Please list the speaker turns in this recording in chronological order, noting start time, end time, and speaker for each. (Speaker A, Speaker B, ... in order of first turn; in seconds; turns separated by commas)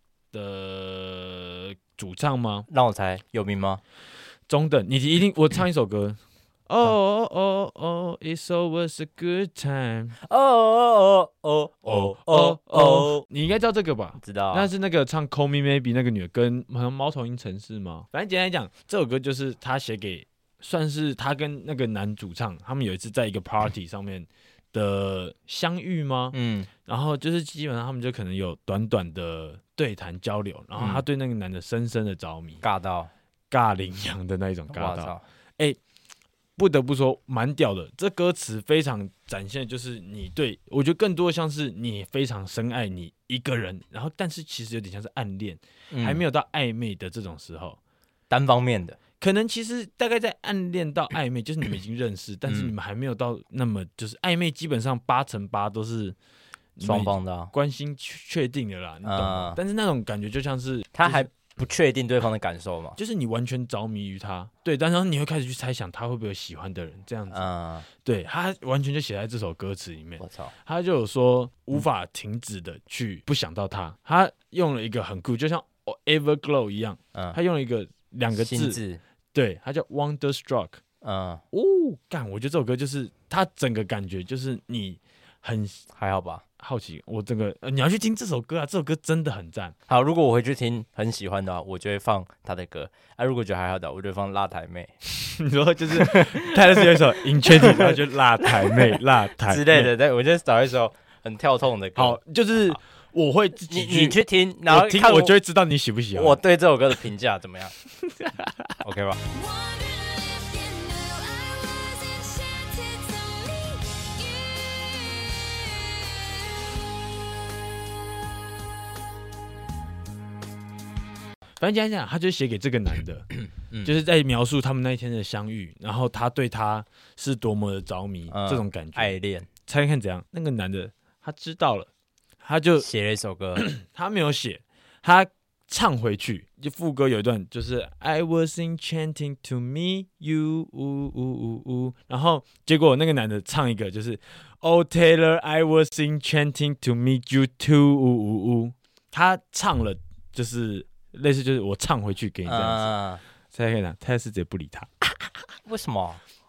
Speaker A: 0.3-2.7, Speaker B: 2.7-3.8, Speaker A: 4.5-10.2, Speaker B: 10.2-13.3, Speaker A: 11.9-32.6, Speaker B: 14.2-14.7, Speaker B: 26.3-26.7, Speaker B: 30.8-31.0, Speaker B: 32.6-33.1, Speaker A: 33.5-35.8, Speaker B: 34.7-35.2, Speaker A: 36.6-47.8, Speaker B: 45.9-46.2, Speaker B: 48.3-49.0, Speaker A: 49.2-56.2, Speaker B: 52.5-52.7, Speaker A: 56.8-61.3, Speaker B: 56.8-57.5, Speaker B: 59.0-59.6, Speaker B: 61.0-63.0, Speaker A: 63.0-67.5, Speaker B: 67.3-67.9, Speaker A: 68.0-78.8, Speaker B: 70.2-70.5, Speaker B: 78.3-79.0, Speaker A: 79.3-80.8, Speaker B: 81.0-81.4, Speaker A: 81.5-85.8, Speaker B: 85.9-86.4, Speaker A: 86.6-89.8, Speaker B: 89.9-94.9, Speaker A: 95.1-99.9, Speaker B: 96.0-98.1, Speaker B: 98.6-102.2, Speaker A: 102.0-106.4, Speaker B: 103.7-105.3, Speaker B: 106.1-107.7, Speaker A: 108.1-108.8, Speaker B: 108.8-109.2, Speaker C: 109.3-116.3, Speaker A: 121.6-123.3, Speaker B: 123.6-123.9, Speaker A: 123.8-131.9, Speaker B: 128.3-129.5, Speaker A: 132.4-132.9, Speaker B: 132.8-133.7, Speaker A: 133.6-152.9, Speaker B: 152.5-153.2, Speaker A: 153.5-155.1, Speaker B: 155.7-156.2